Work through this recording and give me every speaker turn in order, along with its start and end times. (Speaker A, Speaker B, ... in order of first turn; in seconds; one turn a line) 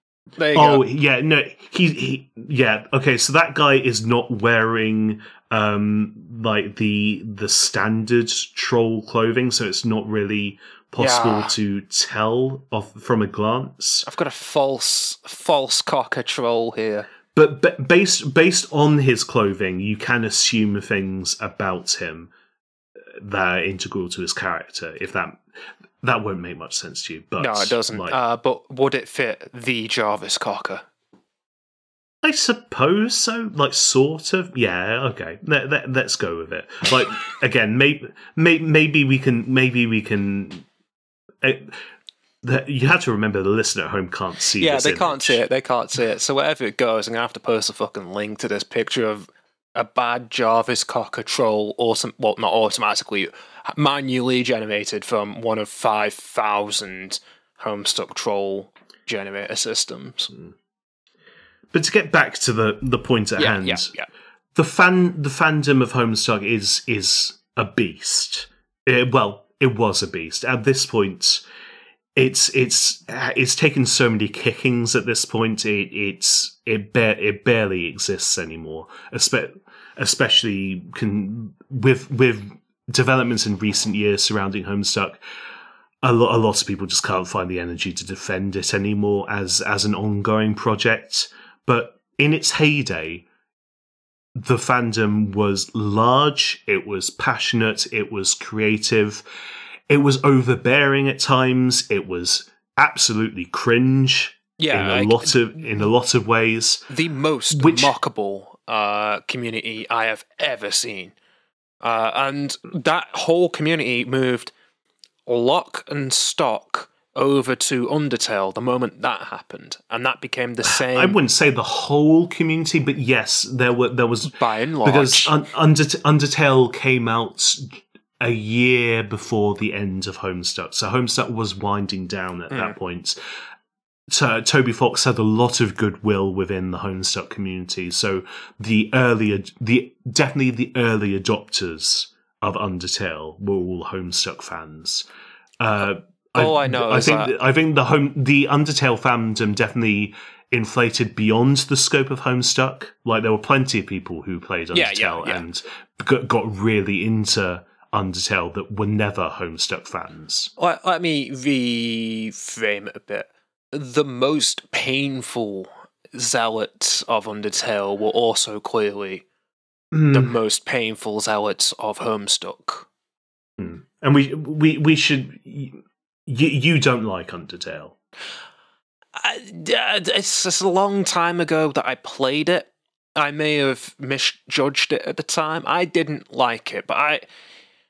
Speaker A: 0.4-0.9
Speaker B: 0.5-14.1
Speaker A: 11.0-11.5
Speaker A: 14.0-17.1
Speaker B: 17.3-22.3
Speaker B: 23.2-25.4
Speaker B: 26.0-28.2
Speaker A: 27.4-30.9
Speaker B: 32.2-40.6
Speaker B: 41.4-41.8
Speaker B: 42.4-45.4
Speaker A: 44.6-60.3
Speaker B: 61.7-63.9
Speaker A: 63.4-64.1
Speaker B: 64.5-71.4
Speaker B: 72.1-85.2
Speaker B: 86.0-93.2
Speaker B: 94.3-99.2
Speaker B: 99.9-106.9
Speaker A: 104.6-105.5
Speaker A: 106.9-111.1
Speaker B: 107.5-107.9
Speaker A: 111.8-114.5
Speaker A: 115.2-121.2
Speaker B: 120.7-133.2
Speaker A: 124.3-125.4
Speaker A: 132.5-132.8
Speaker B: 134.1-145.1
Speaker B: 145.6-160.5
Speaker A: 146.3-147.3
Speaker A: 154.7-155.4
Speaker A: 160.6-169.2
Speaker B: 169.9-170.3
Speaker A: 170.1-172.9
Speaker B: 173.6-177.9
Speaker A: 179.2-187.2